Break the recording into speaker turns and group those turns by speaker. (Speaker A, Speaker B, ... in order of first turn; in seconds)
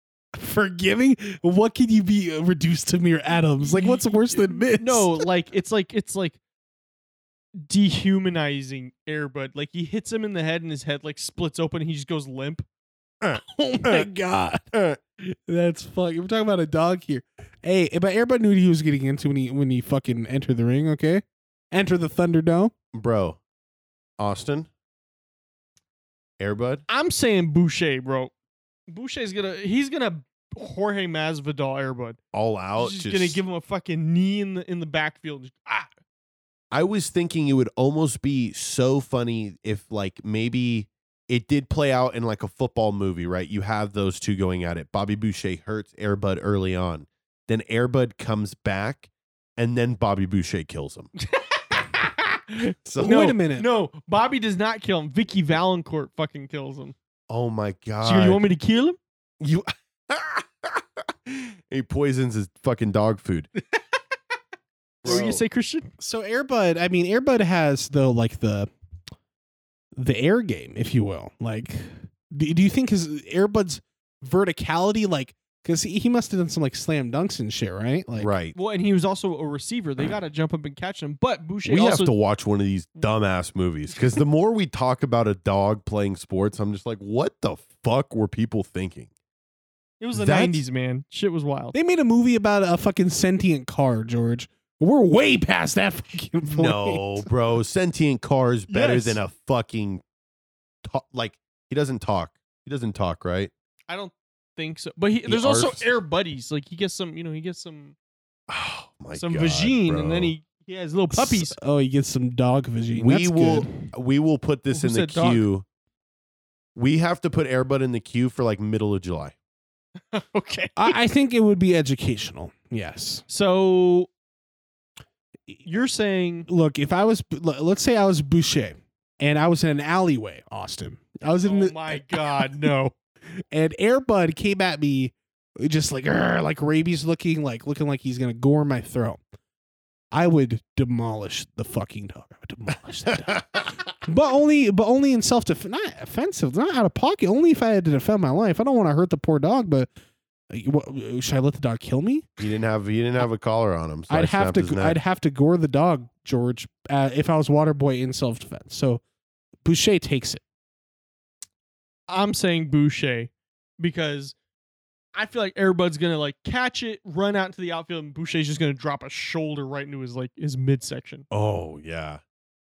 Speaker A: 0.3-5.3, 13.3-22.7, 53.0-53.7, 66.0-68.7, 70.0-78.3, 91.7-97.3, 111.1-113.7, 120.8-123.2, 126.5-132.7, 133.4-139.2, 140.1-149.9, 150.5-152.3, 154.1-159.0, 159.6-160.4
Speaker B: 3.6-6.4, 7.6-12.7, 26.9-28.3, 28.9-32.2, 32.8-35.9, 51.3-57.0, 58.0-59.0, 65.0-65.9, 78.5-82.1, 90.0-91.7, 98.7-99.2, 103.9-108.0, 109.1-111.6, 114.7-115.5, 120.1-121.0, 123.3-124.1, 125.6-126.5, 131.4-132.9, 162.1-164.4, 165.1-171.2
Speaker C: 13.2-14.1, 14.7-15.0, 22.9-23.4, 24.2-24.7, 26.4-26.9, 32.3-33.4, 36.7-51.1, 52.9-53.3, 57.3-58.5, 59.4-63.5, 65.0-65.4, 78.2-78.6, 81.7-89.1, 90.1-90.6, 96.4-100.0, 100.8-103.5, 105.3-105.9, 108.5-110.3, 113.0-115.7, 116.8-119.3, 152.4-155.0, 171.3-172.2